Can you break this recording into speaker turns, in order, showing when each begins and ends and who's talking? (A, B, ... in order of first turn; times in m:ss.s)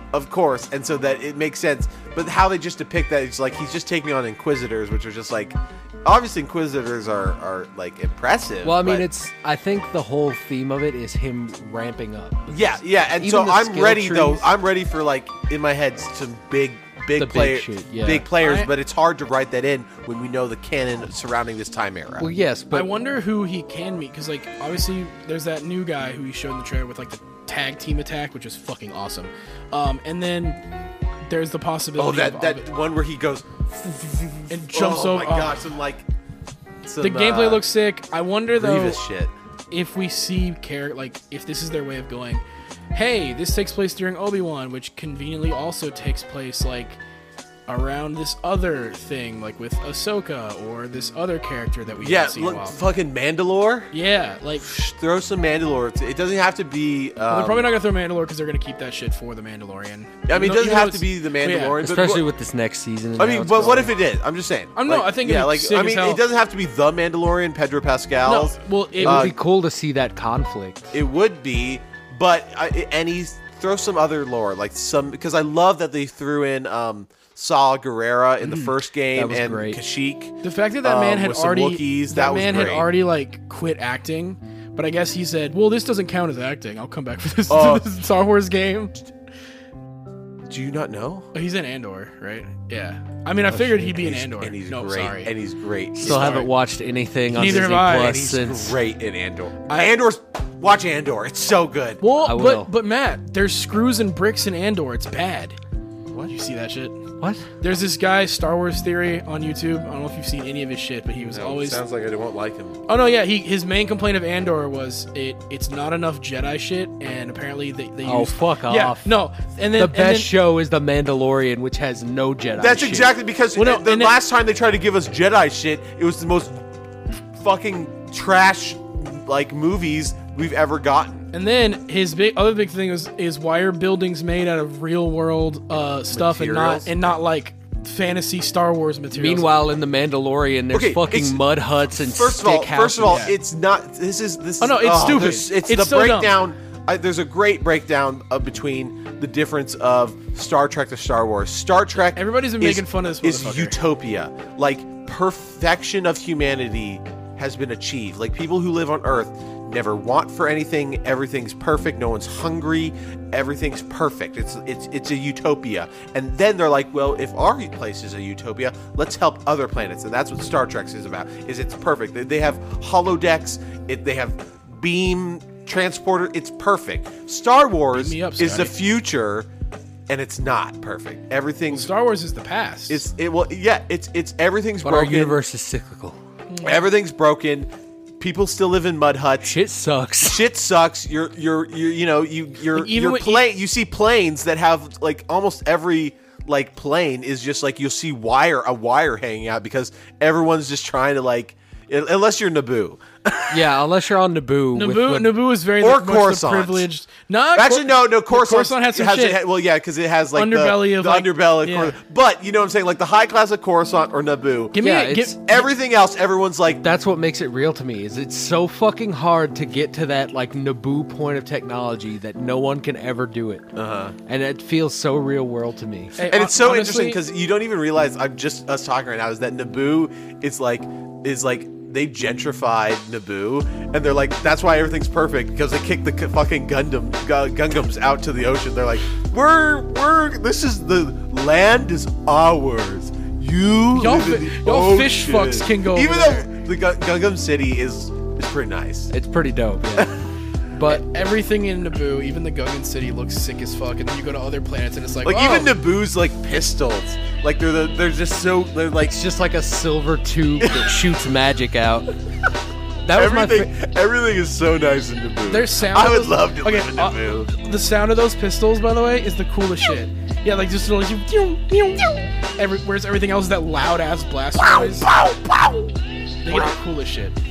0:00.1-0:09.1 A
0:08.6-0:14.5 B
0:12.5-0:22.3 A
0:17.2-0:18.3 B
0:18.4-0:18.7 C
0:22.2-0:22.9 B
0:22.7-0:30.6 C
0:31.2-0:32.7 C
0:32.0-0:36.0 A
0:34.5-0:35.6 C
0:36.8-0:37.6 A
0:37.0-0:39.0 C
0:38.6-0:39.3 A
0:39.7-0:42.4 C
0:42.9-0:47.0 C
0:47.7-0:52.8 C
0:52.0-0:53.9 A
0:53.9-0:54.7 C
0:54.6-0:57.7 A
0:57.3-1:01.8 C
1:00.3-1:02.3 A
1:01.8-1:03.9 B
1:03.2-1:09.4 A
1:04.8-1:06.2 C
1:08.2-1:09.3 C
1:09.0-1:11.0 B
1:10.9-1:22.9 A
1:19.2-1:19.8 B
1:20.4-1:29.1 C
1:27.5-1:27.9 A
1:30.5-1:31.3 A
1:31.3-1:35.3 C
1:33.8-1:36.5 A
1:36.0-1:38.8 B
1:36.0-1:36.5 C
1:37.3-1:38.2 C
1:37.9-1:42.0 A
1:39.7-1:40.0 C
1:42.0-1:45.6 C
1:42.2-1:42.7 B
1:46.3-1:47.0 C
1:47.2-1:47.5 B
1:47.6-1:51.8 C
1:51.3-1:52.8 A
1:52.9-2:00.3 C
1:58.0-1:59.2 B
1:59.8-2:03.1 B
2:02.6-2:06.6 A
2:03.6-2:04.2 C
2:07.4-2:11.2 A
2:11.3-2:19.5 C
2:16.1-2:17.0 A
2:19.1-2:23.3 B
2:20.7-2:59.5 A
2:23.0-2:23.3 C
2:24.6-2:26.4 C
2:32.1-2:33.8 C
2:57.9-2:58.8 C
3:00.1-3:01.9 A
3:01.7-3:03.1 C
3:02.9-3:05.4 A
3:04.8-3:06.2 B
3:06.5-3:06.8 C
3:06.6-3:09.6 A
3:09.4-3:10.5 B
3:10.2-3:23.6 A
3:12.7-3:13.5 C
3:23.5-3:25.4 B
3:24.8-3:29.4 C
3:25.8-3:26.9 A
3:27.6-3:34.8 A
3:30.3-3:32.0 C
3:34.7-3:35.6 C
3:34.8-3:35.4 B
3:35.5-3:36.8 A
3:36.8-3:43.7 B
3:43.8-3:44.2 A
3:44.3-3:46.2 B
3:46.2-3:47.2 C
3:46.3-4:09.1 A
4:03.9-4:06.5 C
4:09.1-4:10.2 B
4:10.7-4:11.0 B
4:10.8-4:15.8 C
4:15.2-4:19.2 A
4:19.0-4:22.1 B
4:20.6-4:21.0 A
4:23.0-4:23.7 B
4:23.1-4:27.5 A
4:25.5-4:35.1 C
4:34.8-4:35.9 A
4:36.4-4:37.4 C